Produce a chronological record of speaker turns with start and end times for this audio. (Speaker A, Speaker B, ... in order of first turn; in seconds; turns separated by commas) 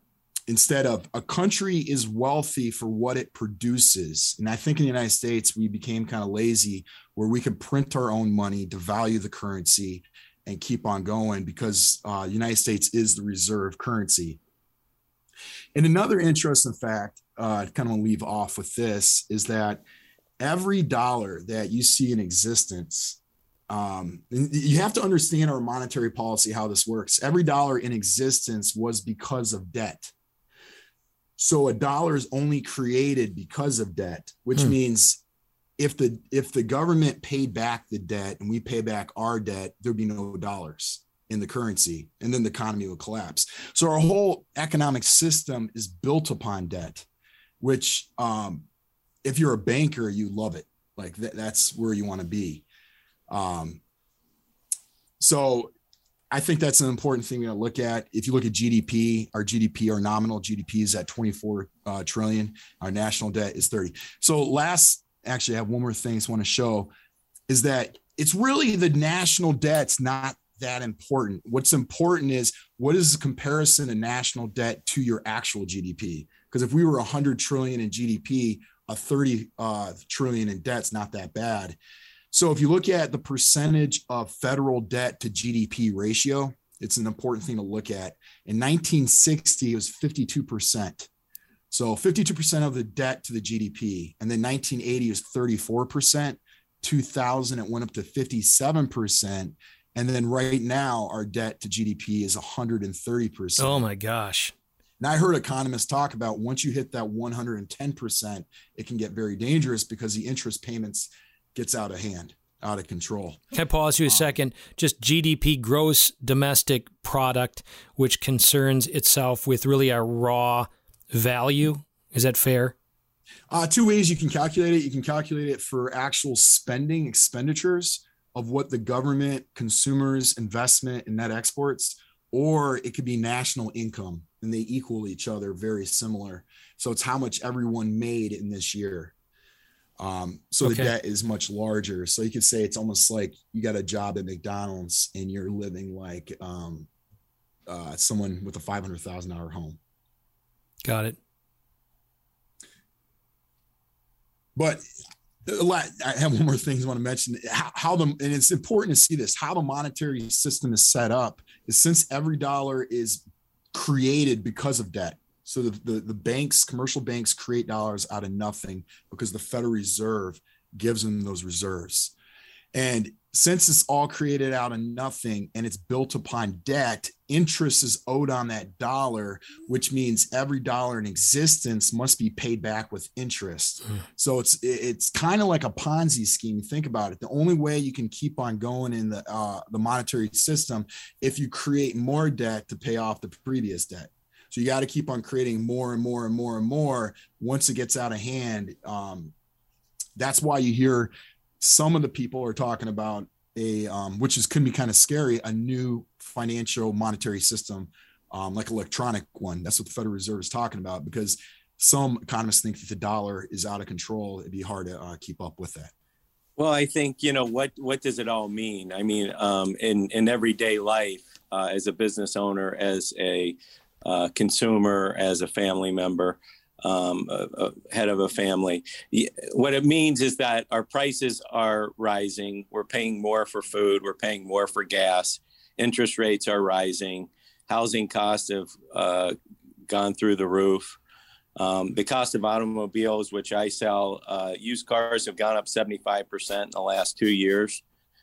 Speaker A: 0.5-14.4, Speaker A: 15.8-19.8, Speaker A: 20.4-23.2, Speaker A: 23.7-30.1, Speaker A: 31.4-35.2, Speaker A: 35.8-47.1, Speaker A: 47.6-48.6, Speaker A: 49.2-52.6, Speaker A: 53.3-53.8, Speaker A: 55.2-55.7, Speaker A: 56.3-66.9, Speaker A: 67.5-81.8, Speaker A: 82.3-91.1, Speaker A: 91.7-103.8, Speaker B: 103.6-104.5, Speaker A: 105.0-113.4, Speaker B: 113.5-122.7, Speaker A: 114.1-114.4, Speaker A: 123.5-139.1, Speaker A: 140.0-146.9, Speaker B: 140.6-140.9, Speaker A: 147.7-149.8, Speaker B: 150.8-151.2, Speaker A: 154.6-154.8, Speaker A: 155.4-172.2, Speaker A: 172.7-199.3, Speaker A: 200.2-215.9, Speaker C: 216.6-239.3, Speaker C: 239.9-241.0, Speaker C: 241.6-247.8